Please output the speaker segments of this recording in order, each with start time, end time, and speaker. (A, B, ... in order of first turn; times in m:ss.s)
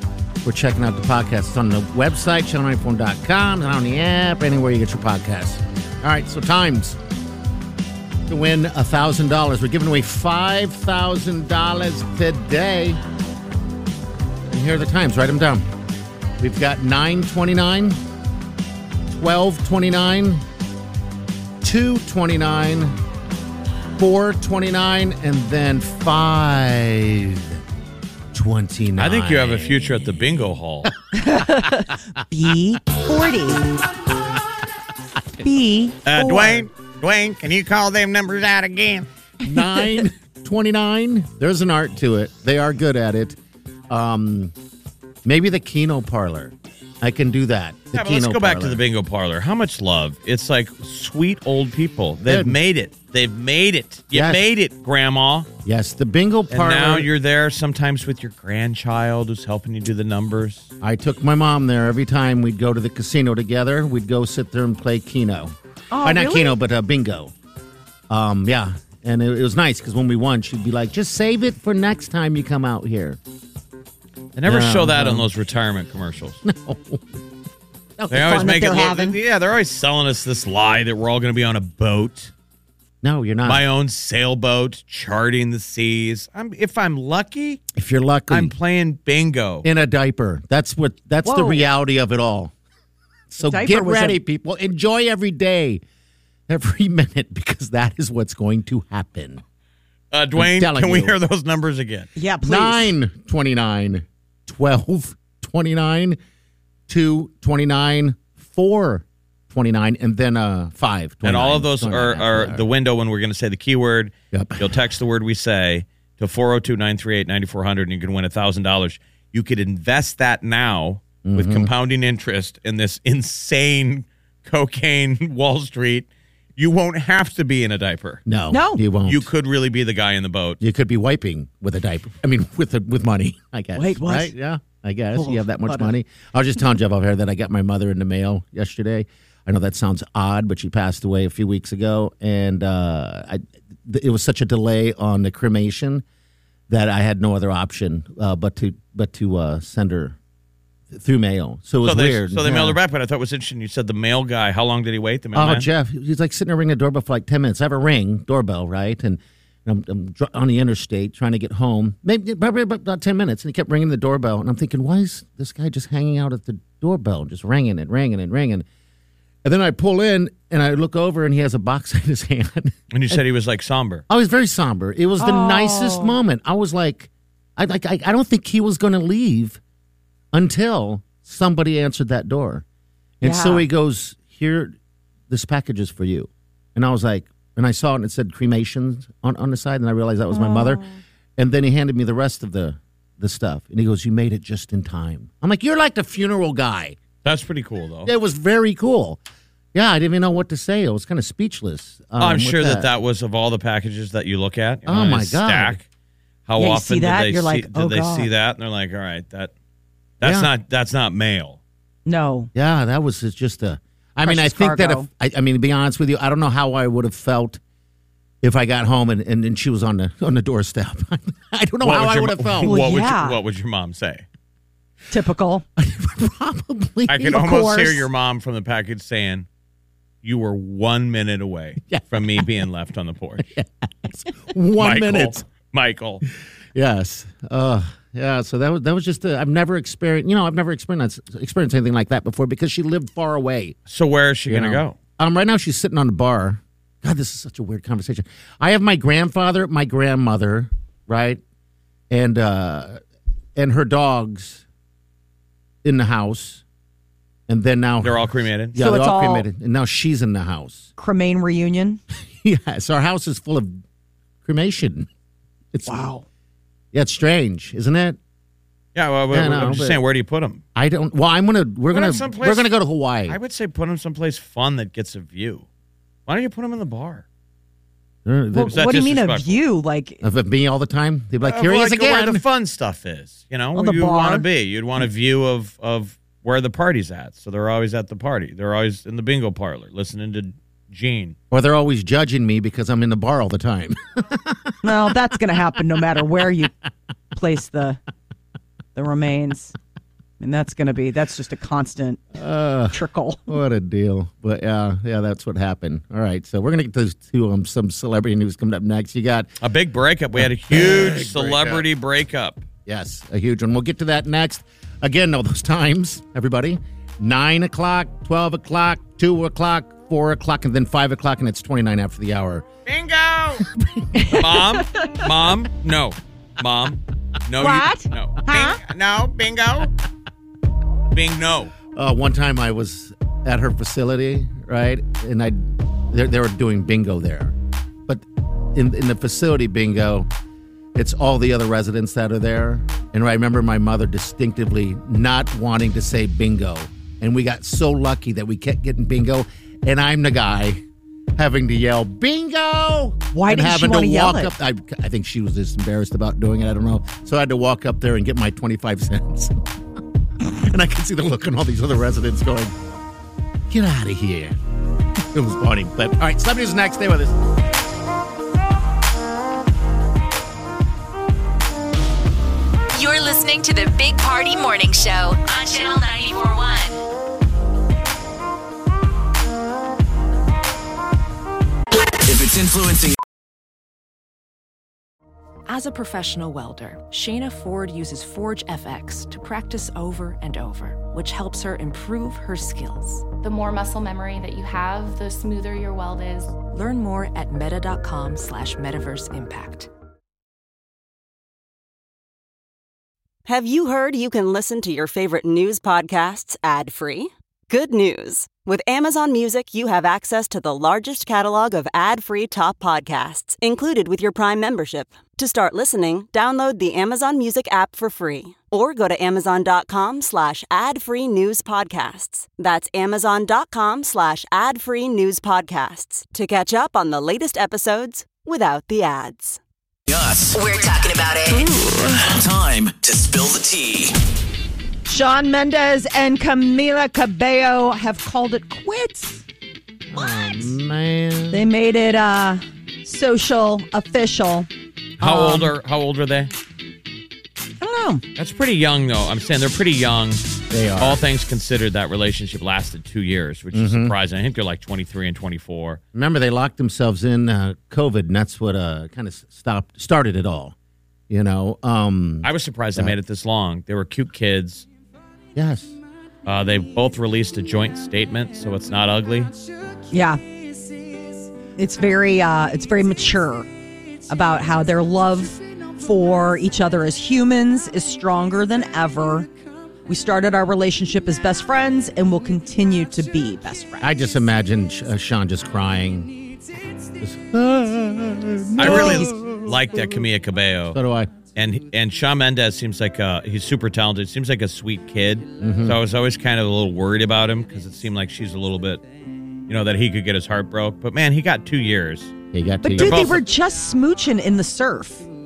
0:00.4-0:07.0 A
0:08.3-0:13.0 A
0:14.5-0:15.7 A
0:16.4-0:18.0 A
0:19.1-0:20.4 A
0:21.6-0:22.9 A
0:24.0-0:27.6 A
0:28.3-0:30.2 A
0:29.0-0:30.9 B
0:31.1-0:33.7 C
0:35.4-0:36.7 C
0:36.0-0:39.1 B
0:39.4-0:43.4 A
0:43.9-0:44.5 A
0:45.2-0:48.8 A
0:47.9-0:55.5 B
0:52.2-0:52.6 A
0:54.1-0:54.4 A
0:55.6-0:57.1 A
0:56.5-1:00.7 B
1:00.8-1:07.3 A
1:05.9-1:06.5 C
1:08.1-1:13.2 A
1:14.4-1:16.4 B
1:14.4-1:15.3 A
1:16.4-1:17.1 A
1:18.0-1:18.4 A
1:18.1-1:22.3 B
1:18.2-1:19.2 C
1:23.0-1:23.6 A
1:23.4-1:27.6 B
1:27.7-1:28.5 A
1:28.3-1:29.6 B
1:29.6-1:32.5 A
1:31.2-1:31.7 C
1:33.3-1:35.8 A
1:33.4-1:34.2 C
1:36.5-1:39.4 A
1:40.1-1:42.1 B
1:40.4-1:41.1 A
1:42.2-1:42.9 C
1:42.4-1:46.2 A
1:46.9-1:52.6 A
1:51.2-2:08.2 B
1:54.3-1:54.8 A
2:01.2-2:01.7 A
2:08.2-2:09.3 A
2:08.5-2:08.8 C
2:09.0-2:10.6 B
2:10.6-2:26.0 A
2:13.7-2:14.3 C
2:15.1-2:15.9 C
2:26.7-2:30.2 A
2:30.9-2:32.8 A
2:31.8-2:35.7 B
2:35.3-2:48.6 A
2:49.4-2:53.2 A
2:52.9-2:54.0 B
2:54.1-2:59.6 A
2:55.2-2:56.2 C
3:00.3-3:02.6 A
3:03.2-3:04.8 A
3:03.2-3:03.7 C
3:05.3-3:10.8 A
3:10.3-3:11.0 C
3:11.4-3:17.0 A
3:17.2-3:18.1 B
3:18.0-3:19.2 A
3:19.7-3:22.9 A
3:22.2-3:25.8 B
3:24.8-3:25.8 A
3:26.5-3:29.5 B
3:26.6-3:28.3 C
3:30.2-3:31.6 B
3:30.2-3:30.5 A
3:32.0-3:32.5 C
3:32.5-3:37.6 A
3:34.2-3:35.1 C
3:38.4-3:42.8 A
3:41.8-3:44.2 B
3:42.6-3:43.4 C
3:45.1-3:45.6 C
3:45.8-3:47.5 A
3:47.1-3:49.4 B
3:47.3-3:48.0 C
3:50.2-3:53.4 B
3:51.9-3:52.5 A
3:53.4-3:55.4 A
3:54.8-3:56.2 B
3:56.7-4:03.8 A
4:03.9-4:04.9 B
4:04.5-4:11.4 A
4:12.1-4:13.0 A
4:13.6-4:14.6 A
4:15.8-4:16.6 A
4:17.5-4:20.9 A
4:18.0-4:18.8 B
4:18.8-4:19.5 C
4:21.0-4:22.0 C
4:22.4-4:23.8 A
4:24.4-4:25.1 A
4:25.7-4:26.0 A
4:25.9-4:26.2 C
4:26.9-4:28.2 A
4:28.9-4:30.6 B
4:29.3-4:30.0 A
4:30.7-4:33.4 A
4:31.9-4:32.7 B
4:33.3-4:35.6 B
4:36.3-4:37.2 B
4:38.2-4:38.8 A
4:38.5-4:40.2 C
4:38.7-4:39.6 B
4:40.2-4:42.4 A
4:41.4-4:51.4 B
4:43.7-4:44.4 C
4:51.5-4:54.8 A
4:54.8-4:56.7 C
4:57.3-4:58.0 C
4:58.9-4:59.7 C
5:00.4-5:02.2 C
5:02.3-5:03.0 A
5:02.9-5:03.4 C
5:03.5-5:09.5 A
5:09.6-5:12.6 B
5:10.7-5:11.8 A
5:12.8-5:22.6 A
5:22.8-5:23.6 B
5:23.7-5:24.1 A
5:24.1-5:25.2 C
5:24.3-5:29.9 B
5:27.6-5:28.8 C
5:31.1-5:31.7 B
5:31.9-5:37.5 A
5:38.1-5:40.3 A
5:40.9-5:50.8 A
5:51.4-5:59.6 A
5:53.3-5:54.5 C
6:00.4-6:02.7 A
6:03.7-6:04.6 A
6:05.3-6:07.4 A
6:12.9-6:17.0 D
6:22.2-6:23.2 E
6:25.7-6:33.3 F
6:33.4-6:36.6 G
6:36.5-6:39.9 F
6:43.4-7:09.6 H
7:10.1-7:10.6 E
7:10.5-7:11.7 D
7:11.7-7:12.1 C
7:12.0-7:14.2 E
7:15.0-7:19.4 C
7:20.1-7:21.6 A
7:21.5-7:24.7 C
7:25.2-7:25.7 C
7:25.2-7:26.5 B
7:27.8-7:28.2 C
7:28.4-7:30.4 B
7:30.7-7:31.2 A
7:31.0-7:36.0 B
7:33.7-7:34.1 A
7:36.1-7:40.7 A
7:41.3-7:43.1 A
7:42.4-7:44.8 B
7:45.5-7:45.9 A
7:46.4-7:49.5 B
7:50.1-7:50.4 C
7:51.8-7:53.7 C
7:54.3-7:59.5 C
8:00.1-8:04.1 C
8:04.0-8:06.4 A
8:07.2-8:10.1 A
8:08.8-8:11.0 B
8:08.8-8:09.3 C
8:10.9-8:11.3 A
8:11.5-8:19.0 B
8:15.6-8:16.0 A
8:19.7-8:22.3 B
8:22.5-8:23.4 A
8:22.8-8:25.3 C
8:23.0-8:23.4 B